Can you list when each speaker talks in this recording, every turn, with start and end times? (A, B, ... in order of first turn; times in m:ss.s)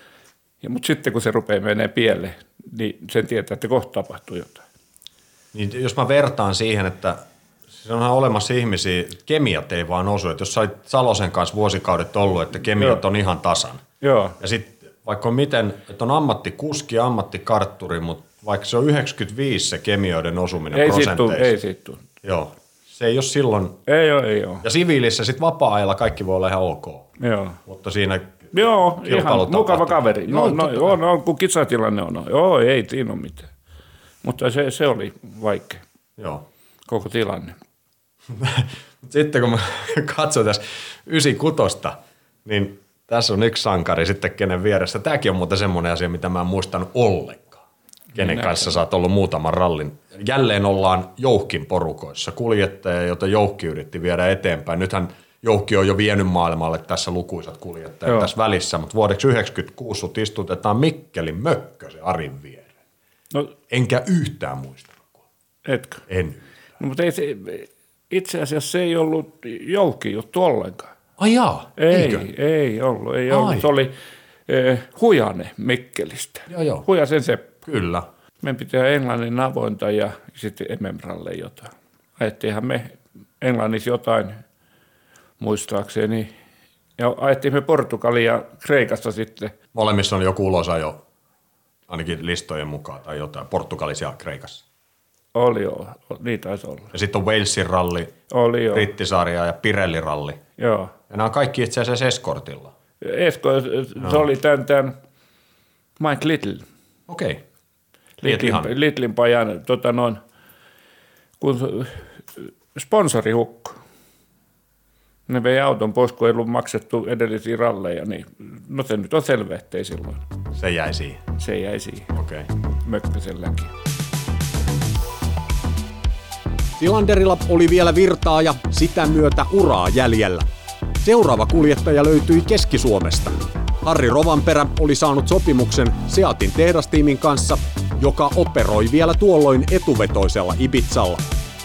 0:00.6-0:04.6 A
0:05.5-0:13.8 B
0:14.0-0:14.4 A
0:14.4-0:21.5 B
0:20.7-0:22.0 A
0:22.2-0:23.8 B
0:23.9-0:24.6 A
0:24.6-0:27.1 B
0:27.2-0:27.6 A
0:27.6-0:31.0 B
0:28.5-0:33.5 A
0:34.2-0:35.8 A
0:36.2-0:36.4 B
0:36.9-0:37.5 A
0:38.3-0:47.6 B
0:48.1-1:02.7 B
0:48.2-0:48.8 A
0:58.0-0:58.3 A
1:03.7-1:05.2 B
1:05.6-1:06.0 A
1:06.1-1:06.4 B
1:06.8-1:10.9 A
1:11.2-1:12.3 B
1:11.8-1:13.9 A
1:13.3-1:13.7 B
1:14.5-1:17.5 A
1:16.5-1:16.8 B
1:17.6-1:18.1 B
1:18.4-1:24.4 A
1:25.4-1:26.3 A
1:27.0-1:29.5 A
1:29.7-1:31.0 B
1:31.9-1:34.6 B
1:35.3-1:36.9 A
1:36.9-1:38.2 B
1:38.3-1:38.9 A
1:38.7-1:40.4 B
1:40.6-1:40.9 A
1:41.1-1:42.7 B
1:43.0-1:44.9 A
1:46.0-1:46.6 A
1:47.1-1:47.4 B
1:48.2-1:50.2 A
1:48.2-1:48.7 B
1:51.4-1:53.8 A
1:55.3-2:00.2 A
2:00.6-2:01.2 B
2:01.4-2:02.1 A
2:02.1-2:02.5 B
2:02.8-2:03.7 A
2:06.8-2:10.5 C
2:11.0-2:21.2 C